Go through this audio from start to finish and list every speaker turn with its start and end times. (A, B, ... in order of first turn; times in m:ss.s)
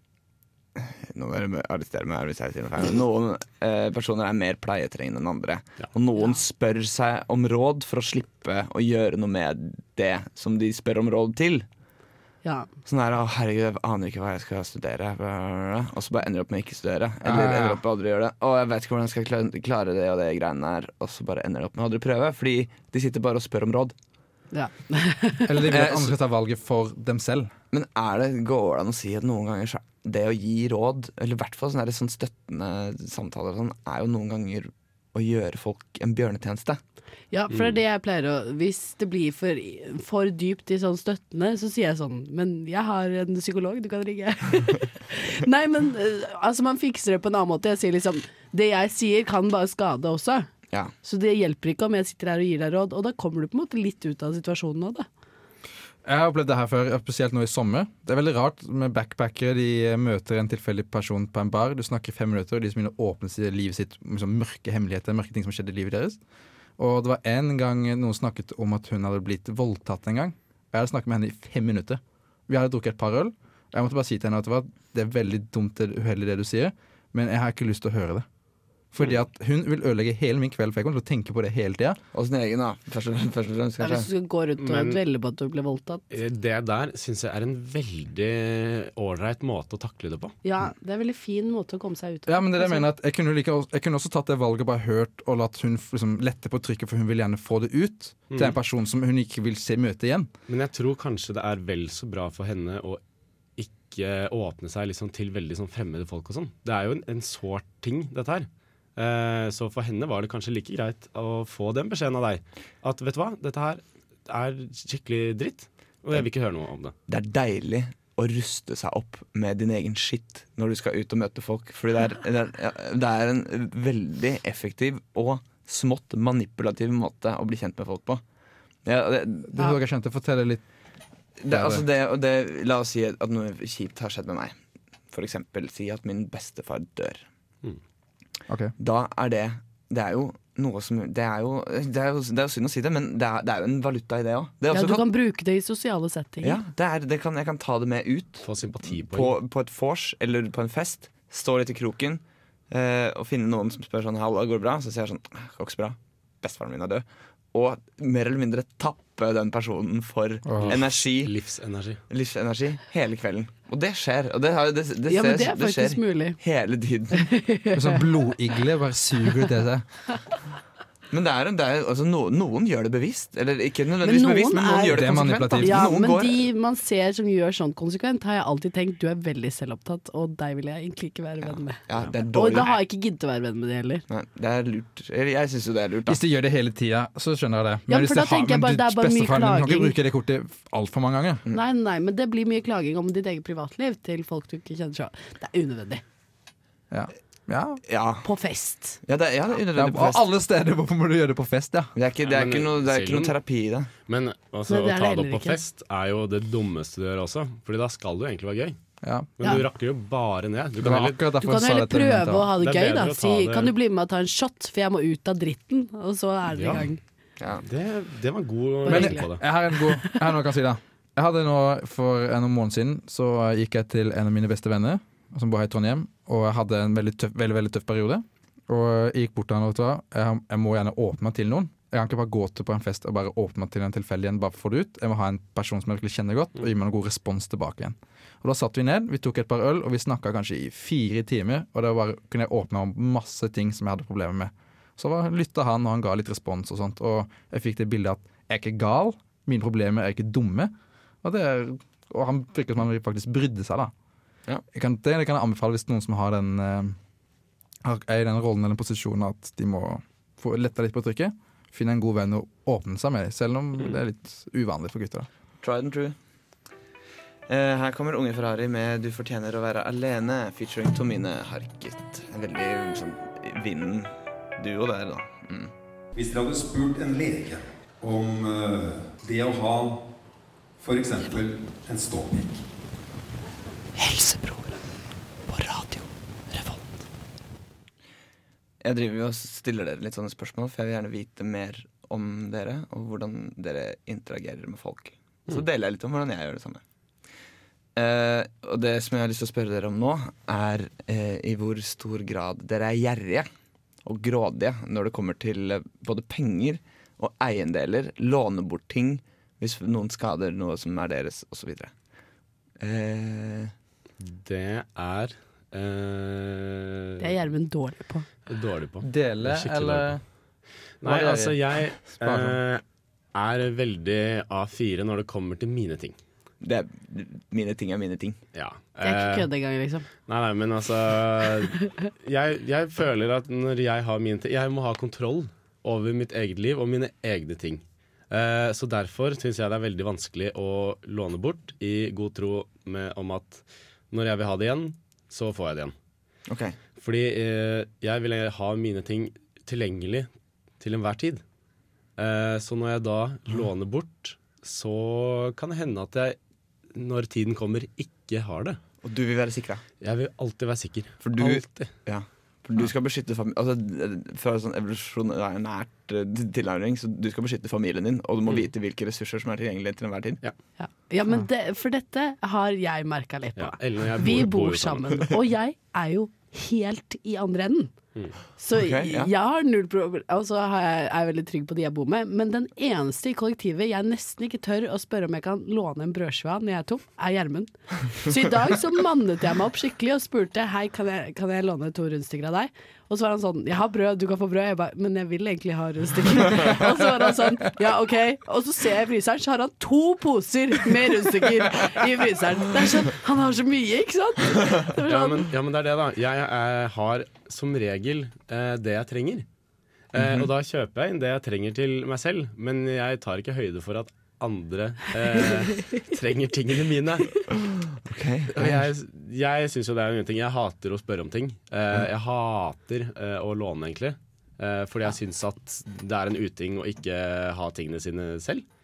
0:00.8-0:11.6 A
0:12.8-0:23.9 A
0:17.2-0:17.8 B
0:24.5-0:25.6 C
0:25.5-0:27.5 B
0:25.6-0:26.2 A
0:27.7-0:36.8 A
0:37.3-0:50.5 C
0:51.0-0:55.1 C
0:56.0-1:06.2 B
1:06.8-1:18.2 B
1:18.9-1:22.0 B
1:22.1-1:24.1 A
1:23.8-1:26.0 C
1:24.6-1:25.0 D
1:26.1-1:30.4 D
1:30.4-1:32.8 C
1:32.3-1:40.3 B
1:38.3-1:38.6 D
1:40.5-1:43.0 D
1:43.6-1:56.9 D
1:57.1-2:08.2 A
2:08.8-2:09.6 A
2:09.5-2:10.6 B
2:11.4-2:14.6 A
2:11.5-2:11.8 B
2:15.1-2:17.2 A
2:18.8-2:25.1 A
2:24.7-2:26.6 C
2:26.4-2:41.3 A
2:28.4-2:29.3 D
2:40.4-2:40.7 B
2:40.6-2:42.0 D
2:42.1-2:47.2 A
2:45.1-2:46.4 C
2:47.1-2:48.0 C
2:47.7-2:49.8 B
2:51.1-2:56.5 A
2:54.0-3:04.0 C
2:54.8-2:55.9 B
3:01.9-3:02.8 A
3:04.1-3:06.2 A
3:06.1-3:11.4 B
3:07.9-3:09.9 C
3:11.5-3:16.0 C
3:16.9-3:17.8 B
3:17.8-3:18.2 A
3:18.2-3:19.0 C
3:19.0-3:20.3 A
3:19.7-3:21.9 B
3:21.9-3:23.9 A
3:22.2-3:23.4 D
3:24.1-3:28.8 D
3:24.7-3:25.6 C
3:29.0-3:29.6 B
3:29.4-3:31.2 D
3:30.8-3:32.5 B
3:31.4-3:37.0 C
3:32.6-3:33.7 D
3:36.5-3:36.8 D
3:37.6-3:39.4 D
3:38.8-3:40.4 C
3:38.9-4:13.9 B
4:14.7-4:17.0 B
4:17.8-4:25.3 B
4:25.6-4:26.2 A
4:27.5-4:35.7 A
4:36.1-4:40.0 E
4:40.8-4:42.6 E
4:44.0-4:44.8 A
4:45.5-4:46.8 A
4:48.8-4:56.8 A
4:58.0-5:03.5 A
5:04.0-5:11.9 A
5:12.8-5:13.7 A
5:14.2-5:17.3 D
5:17.2-5:18.3 C
5:18.5-5:20.1 D
5:19.0-5:20.2 B
5:21.0-5:22.8 D
5:21.0-5:22.6 B
5:23.3-5:26.2 D
5:26.6-5:28.4 A
5:28.5-5:29.5 D
5:29.0-5:30.1 C
5:30.3-5:45.9 D
5:46.5-5:46.8 A
5:47.0-5:50.3 D
5:50.8-5:51.4 D
5:52.2-5:56.4 D
5:56.9-5:58.8 D
5:59.0-5:59.8 A
6:00.0-6:01.9 D
6:01.2-6:10.4 A
6:10.8-6:17.9 C
6:13.6-6:15.3 D
6:18.6-6:45.5 C
6:18.7-6:19.3 A
6:45.1-6:49.5 D
6:50.1-6:57.5 D
6:50.2-6:50.5 A
6:58.0-6:58.8 A
6:58.5-7:08.6 D